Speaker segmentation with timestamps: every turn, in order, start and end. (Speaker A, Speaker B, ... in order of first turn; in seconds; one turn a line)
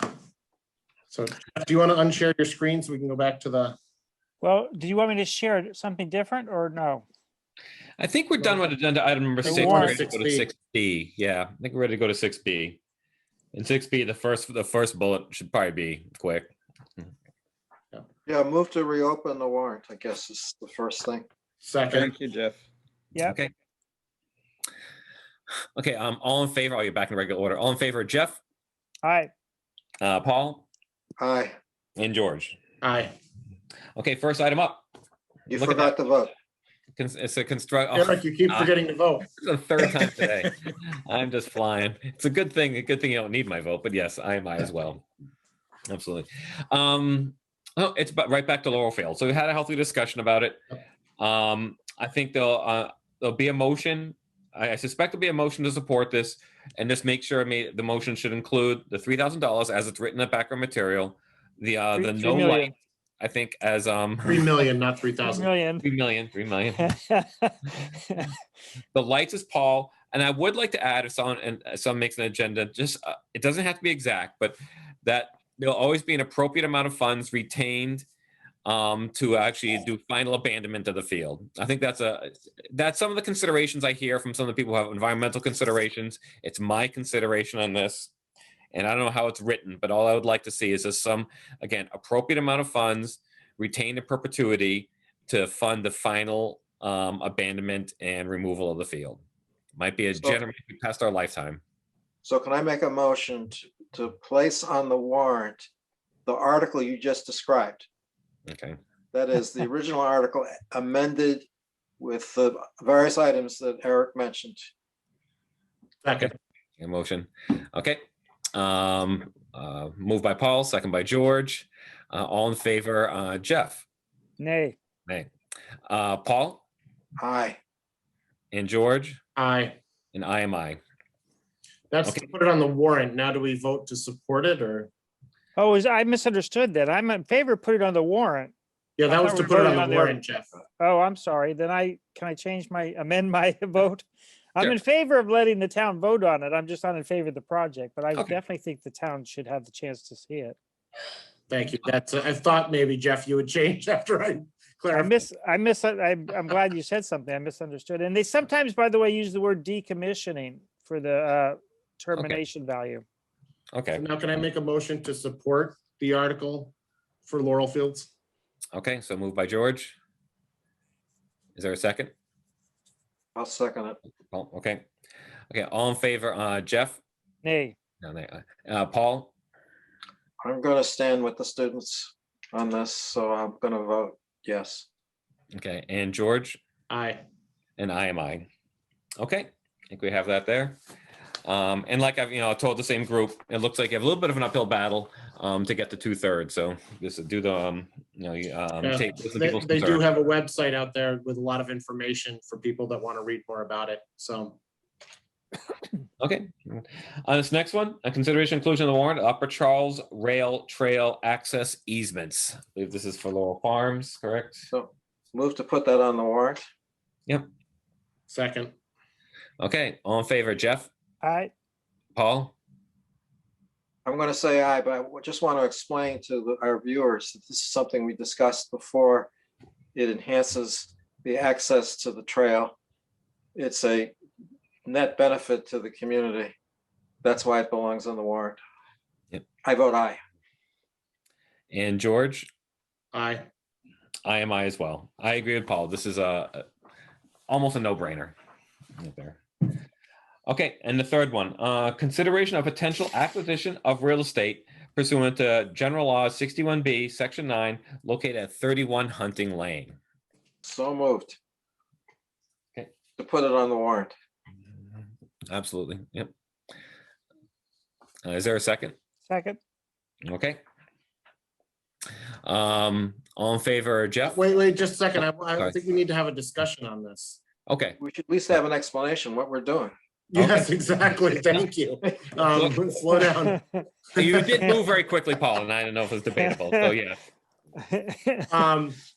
Speaker A: 1.1-3.8
Speaker B: 4.4-7.0
Speaker C: 8.0-12.8
Speaker A: 9.4-10.5
Speaker B: 9.4-10.0
Speaker C: 13.5-16.5
Speaker D: 18.2-21.3
Speaker A: 21.6-22.1
Speaker C: 23.2-23.5
Speaker C: 25.8-28.4
Speaker B: 29.0-29.3
Speaker C: 30.0-30.6
Speaker D: 31.2-31.6
Speaker C: 32.0-32.5
Speaker A: 32.8-33.1
Speaker C: 34.0-34.8
Speaker D: 35.5-36.3
Speaker C: 35.5-35.9
Speaker C: 37.0-38.7
Speaker A: 37.9-39.2
Speaker C: 39.3-45.0
Speaker C: 45.9-50.6
Speaker C: 51.2-64.4
Speaker B: 62.0-62.7
Speaker A: 64.2-65.5
Speaker B: 65.2-65.8
Speaker C: 65.8-66.8
Speaker B: 66.8-68.3
Speaker C: 68.9-78.0
Speaker C: 78.6-88.1
Speaker C: 88.7-99.2
Speaker C: 99.8-101.6
Speaker D: 102.2-105.7
Speaker D: 106.2-107.9
Speaker C: 108.5-108.8
Speaker D: 109.1-111.5
Speaker D: 112.0-114.7
Speaker A: 116.0-116.3
Speaker C: 116.2-118.0
Speaker C: 118.5-123.8
Speaker B: 124.4-124.8
Speaker C: 125.9-126.6
Speaker D: 127.2-127.6
Speaker C: 128.5-129.2
Speaker A: 129.3-129.8
Speaker C: 130.1-130.8
Speaker A: 131.9-134.9
Speaker B: 135.6-138.5
Speaker A: 139.0-140.5
Speaker B: 139.1-140.2
Speaker B: 140.8-150.6
Speaker A: 151.5-155.2
Speaker B: 154.9-163.0
Speaker C: 162.1-162.4
Speaker C: 163.7-164.0
Speaker A: 163.9-166.7
Speaker A: 167.2-168.1
Speaker C: 168.7-169.9
Speaker C: 171.6-172.1
Speaker D: 173.3-174.0
Speaker C: 174.3-174.8
Speaker C: 175.5-177.0
Speaker B: 177.4-177.8
Speaker C: 178.0-179.3
Speaker D: 180.4-184.9
Speaker C: 185.5-186.6
Speaker A: 186.9-187.2
Speaker C: 187.8-188.5
Speaker C: 189.2-190.8
Speaker C: 191.4-200.1
Speaker A: 198.8-204.6
Speaker C: 206.2-214.7
Speaker D: 214.7-216.6
Speaker A: 218.3-218.7
Speaker C: 219.6-220.9
Speaker B: 221.2-221.5
Speaker C: 222.1-222.5
Speaker D: 224.0-229.3
Speaker D: 229.9-232.7
Speaker D: 233.5-234.2
Speaker D: 234.8-236.5
Speaker D: 237.2-238.6
Speaker D: 239.6-240.2
Speaker C: 241.7-242.5
Speaker A: 243.1-243.5
Speaker C: 244.2-246.6
Speaker C: 247.5-248.3
Speaker C: 249.0-249.4
Speaker C: 250.5-260.0
Speaker D: 260.6-261.4
Speaker D: 263.2-264.1
Speaker C: 265.5-266.3
Speaker C: 268.2-268.9
Speaker B: 269.3-269.6
Speaker C: 270.2-270.6
Speaker C: 272.4-274.4
Speaker A: 274.3-277.4
Speaker C: 277.7-278.0
Speaker D: 278.0-279.9
Speaker A: 280.3-283.6
Speaker C: 280.4-280.7
Speaker C: 282.5-282.8
Speaker A: 284.1-284.6
Speaker C: 284.1-287.2
Speaker B: 286.4-286.9
Speaker B: 287.8-288.6
Speaker A: 288.5-289.0